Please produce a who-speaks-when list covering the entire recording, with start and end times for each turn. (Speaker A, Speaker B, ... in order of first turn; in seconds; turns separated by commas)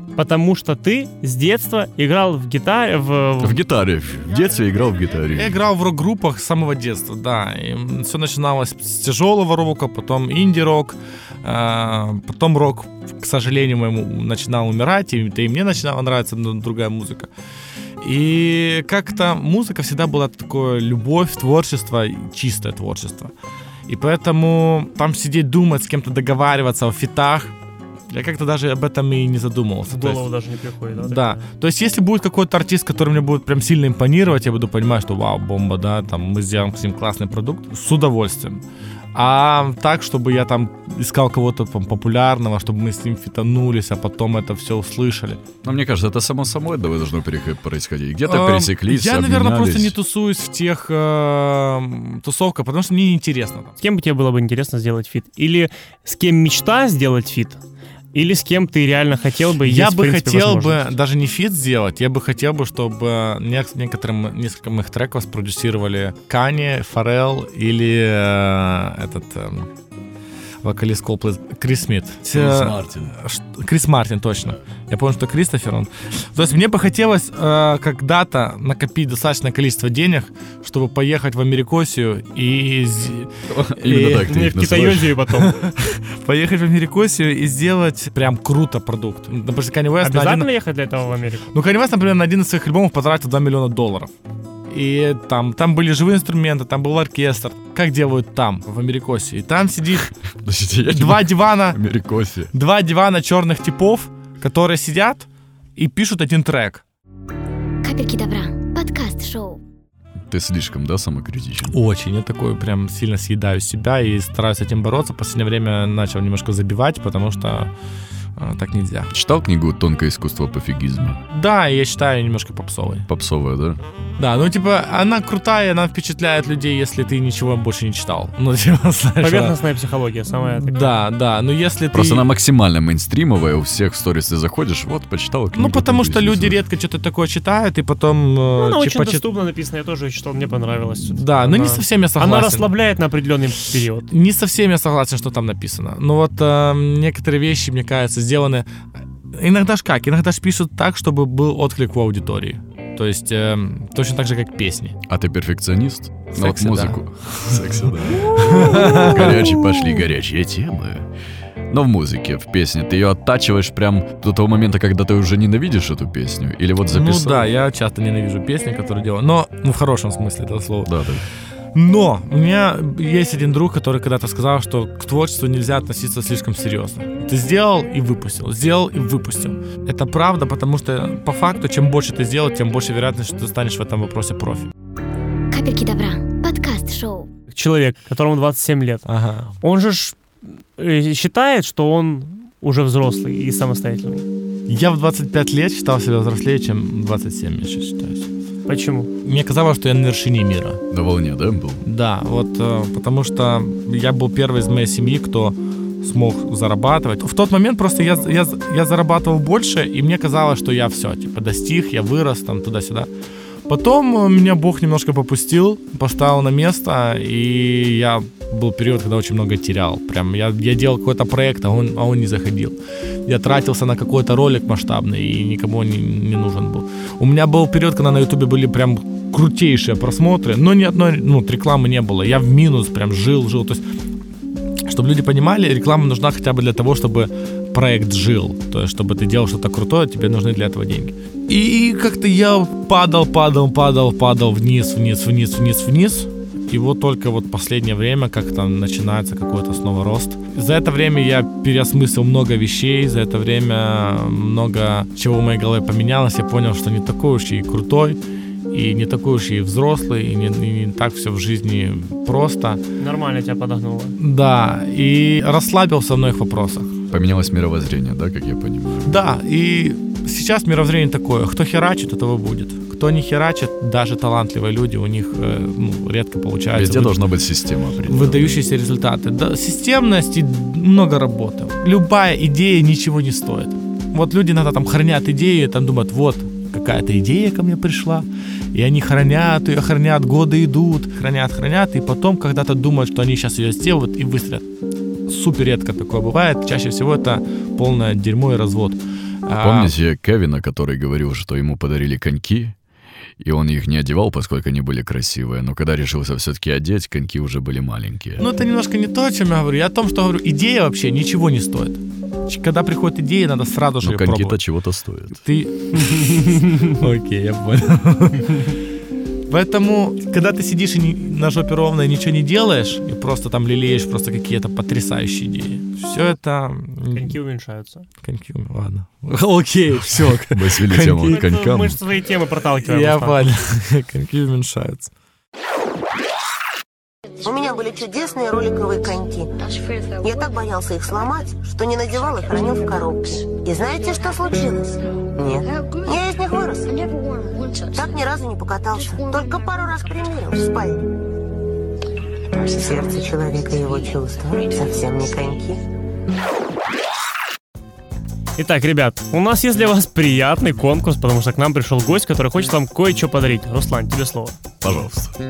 Speaker A: 0.2-3.6, Speaker B: 3.4-5.5, Speaker C: 5.3-17.3, Speaker C: 18.0-23.3, Speaker C: 23.9-27.5, Speaker C: 28.1-30.3, Speaker A: 29.9-31.4, Speaker C: 31.0-38.6, Speaker C: 39.1-45.4, Speaker B: 45.6-50.0, Speaker C: 48.2-53.8, Speaker A: 53.8-57.6, Speaker A: 58.1-60.9, Speaker C: 59.6-69.7, Speaker C: 70.6-84.2, Speaker B: 72.3-73.1, Speaker B: 83.5-85.2, Speaker A: 84.1-85.7, Speaker C: 85.4-90.5, Speaker A: 90.0-91.5, Speaker C: 91.5-94.1, Speaker C: 94.7-100.1, Speaker B: 100.4-102.5, Speaker C: 100.9-101.8, Speaker C: 102.5-106.8, Speaker D: 107.8-109.6, Speaker B: 110.3-111.8, Speaker C: 111.7-117.7, Speaker C: 118.4-119.1, Speaker B: 119.1-121.2, Speaker C: 121.3-123.1, Speaker B: 123.1-123.8, Speaker C: 124.2-129.6, Speaker A: 129.2-131.0, Speaker C: 130.6-132.3, Speaker B: 131.9-136.6, Speaker C: 135.5-139.2, Speaker A: 138.6-144.1, Speaker C: 141.0-142.7, Speaker C: 144.1-148.7, Speaker C: 149.3-155.0, Speaker B: 155.1-161.1, Speaker C: 156.3-157.0, Speaker C: 158.2-159.8, Speaker B: 161.7-167.5, Speaker C: 166.9-170.9, Speaker B: 170.8-171.2, Speaker C: 171.8-184.7, Speaker D: 185.5-187.3, Speaker A: 187.5-189.1, Speaker C: 189.1-189.5, Speaker A: 189.6-194.3, Speaker C: 194.7-198.3, Speaker A: 198.7-199.1, Speaker C: 199.2-200.8, Speaker B: 200.9-201.8, Speaker C: 201.8-213.1, Speaker C: 213.7-233.8, Speaker C: 234.8-262.8, Speaker A: 263.0-264.2, Speaker C: 264.2-266.9, Speaker B: 267.1-269.2, Speaker C: 269.1-277.2, Speaker B: 276.7-278.6, Speaker C: 278.1-294.7, Speaker C: 295.3-299.9, Speaker B: 299.6-302.8, Speaker B: 303.4-308.5, Speaker C: 308.4-314.6, Speaker B: 314.0-315.4, Speaker C: 315.3-318.8, Speaker C: 319.5-327.4, Speaker A: 327.1-328.1, Speaker C: 328.2-331.4, Speaker B: 330.3-332.0, Speaker A: 331.3-333.4, Speaker C: 332.8-335.1, Speaker E: 337.4-351.2, Speaker E: 352.5-355.8, Speaker A: 358.6-364.6, Speaker B: 364.8-365.3